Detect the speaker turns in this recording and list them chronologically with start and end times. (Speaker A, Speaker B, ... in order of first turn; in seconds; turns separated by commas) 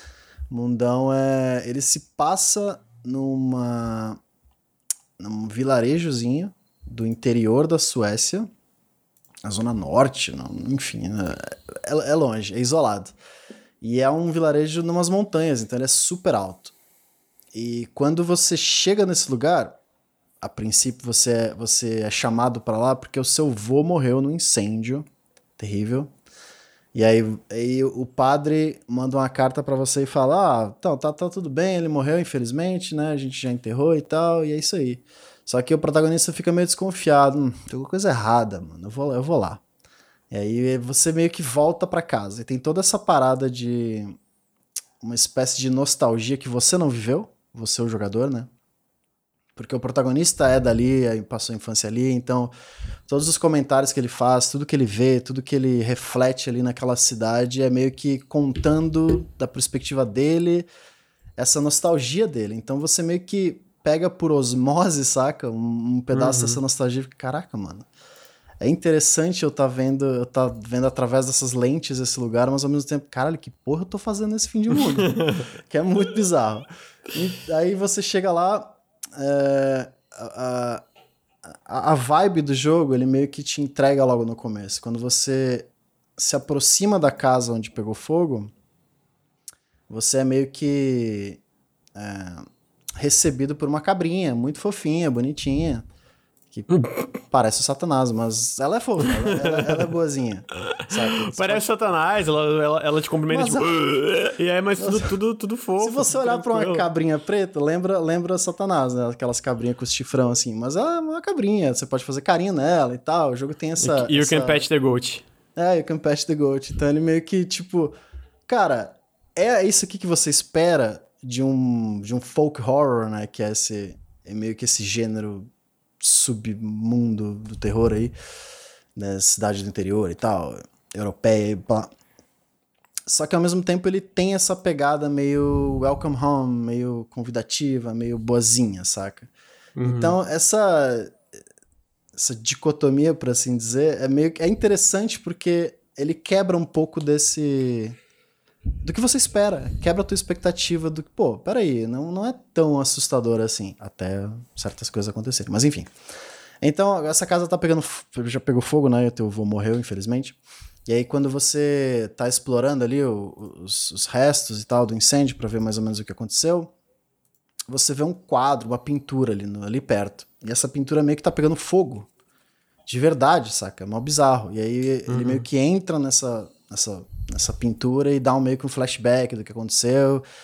Speaker A: 0.5-4.2, Speaker A: 5.2-8.5, Speaker A: 9.4-13.1, Speaker A: 13.8-16.7, Speaker A: 17.5-19.8, Speaker A: 20.4-25.1, Speaker A: 25.6-26.1, Speaker A: 26.9-39.6, Speaker A: 40.3-44.2, Speaker A: 45.0-48.5, Speaker A: 49.5-52.5, Speaker A: 53.1-60.7, Speaker A: 61.4-67.9, Speaker B: 66.1-66.6, Speaker A: 68.6-80.8, Speaker B: 75.0-75.4, Speaker A: 81.5-88.5, Speaker A: 89.9-91.4, Speaker A: 91.9-95.8, Speaker A: 97.3-101.7, Speaker B: 99.2-99.8, Speaker B: 100.7-106.8, Speaker A: 103.3-103.7, Speaker A: 104.8-105.1, Speaker A: 105.8-114.7, Speaker B: 113.8-115.2, Speaker A: 115.5-117.9, Speaker A: 118.5-128.1, Speaker A: 128.9-131.9, Speaker A: 133.1-139.3, Speaker B: 139.8-140.2, Speaker A: 139.8-141.2, Speaker A: 142.1-148.0, Speaker A: 148.8-155.9, Speaker A: 156.6-166.7, Speaker A: 167.7-172.1, Speaker A: 172.8-180.2, Speaker B: 175.1-175.4